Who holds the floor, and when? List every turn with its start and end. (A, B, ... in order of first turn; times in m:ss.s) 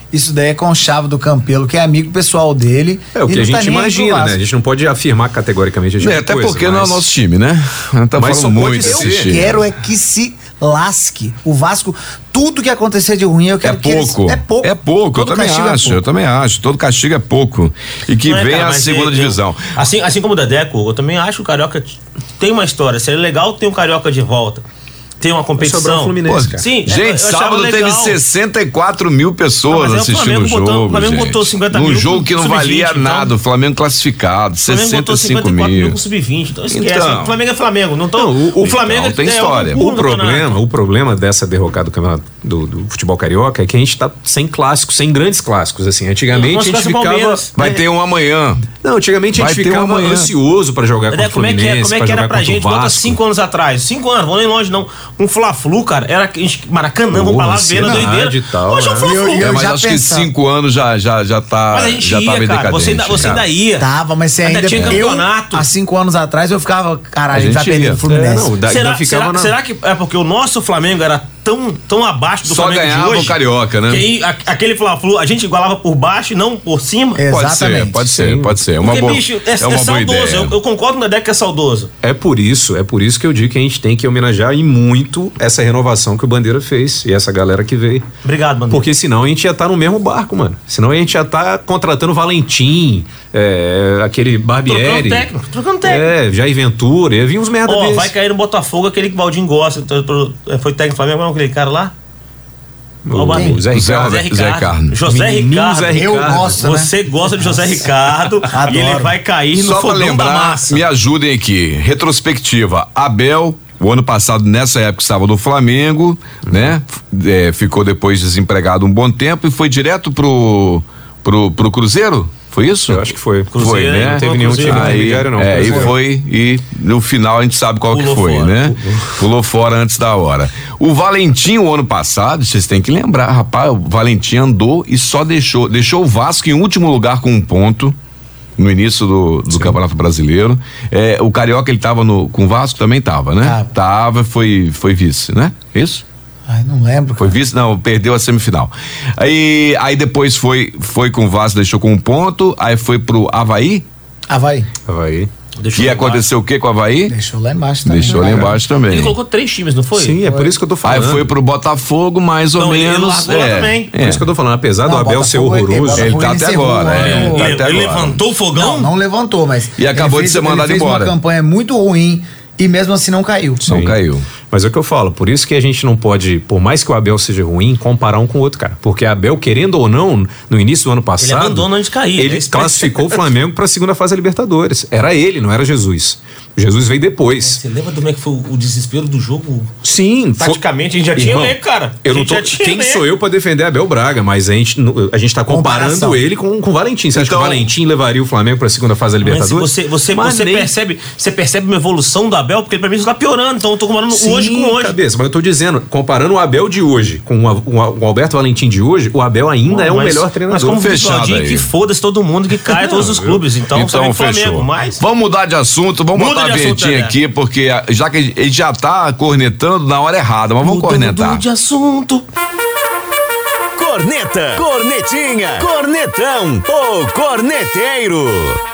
0:00.1-0:04.4 A
0:03.1-0:07.0 B
0:06.0-0:09.6 C
0:08.1-0:09.6 B
0:08.6-0:16.0 A
0:13.6-0:19.7 C
0:18.2-0:24.6 D
0:25.2-0:28.2 D
0:25.6-0:26.6 B
0:26.2-0:36.0 C
0:29.7-0:33.3 D
0:34.7-0:40.6 D
0:36.7-0:37.4 C
0:38.1-0:38.9 B
0:38.7-0:39.8 C
0:39.7-0:47.8 B
0:46.3-0:47.5 D
0:47.6-0:48.7 C
0:48.8-0:53.2 B
0:49.3-0:50.3 C
0:51.1-0:59.5 D
0:57.1-0:59.1 B
0:57.8-0:58.1 C
0:59.0-1:00.3 A
0:59.4-1:03.4 C
1:01.7-1:03.9 D
1:03.8-1:08.5 A
1:04.4-1:05.6 D
1:07.3-1:08.0 C
1:08.1-1:09.5 B
1:08.6-1:17.2 D
1:12.4-1:14.0 C
1:17.1-1:18.1 A
1:17.3-1:20.5 C
1:18.1-1:18.6 B
1:18.8-1:21.9 D
1:22.0-1:28.1 B
1:28.2-1:28.9 D
1:28.7-1:35.3 B
1:34.6-1:36.1 D
1:35.8-1:38.1 B
1:37.6-1:41.9 D
1:43.0-1:44.2 B
1:43.1-1:50.8 D
1:43.3-1:43.6 A
1:43.7-1:45.0 C
1:45.0-1:46.6 B
1:45.9-1:47.8 A
1:48.5-1:49.2 A
1:49.5-2:18.0 C
1:56.4-1:56.7 B
2:02.9-2:06.0 B
2:03.5-2:05.0 D
2:05.6-2:05.9 A
2:07.9-2:09.1 D
2:18.6-2:26.0 C
2:23.4-2:23.7 A
2:26.5-2:27.4 A
2:27.2-2:33.8 C
2:34.3-2:34.7 A
2:34.9-2:35.3 B
2:35.6-2:36.2 D
2:35.7-2:37.2 C
2:37.1-2:38.6 A
2:37.8-2:39.1 C
2:38.1-2:38.6 B
2:38.8-2:40.2 D
2:40.0-2:41.3 B
2:40.2-2:40.5 A
2:40.8-2:44.3 C
2:42.6-2:43.9 D
2:43.9-2:46.2 B
2:44.8-2:47.6 A
2:46.0-2:48.2 C
2:47.1-2:48.9 D
2:48.6-2:53.6 A
2:49.8-2:51.1 C
2:53.6-2:54.3 C
2:53.6-3:07.6 B
3:01.2-3:03.2 D
3:07.4-3:09.7 D
3:09.8-3:10.6 B
3:10.4-3:13.0 D
3:11.1-3:20.7 B
3:15.5-3:16.2 A
3:17.1-3:17.7 C
3:19.2-3:25.0 D
3:24.1-3:30.8 B
3:29.7-3:35.0 D
3:30.6-3:31.7 C
3:32.6-3:33.4 B
3:33.7-3:41.4 C
3:36.1-3:37.2 D
3:40.6-3:42.2 D
3:43.8-3:48.6 E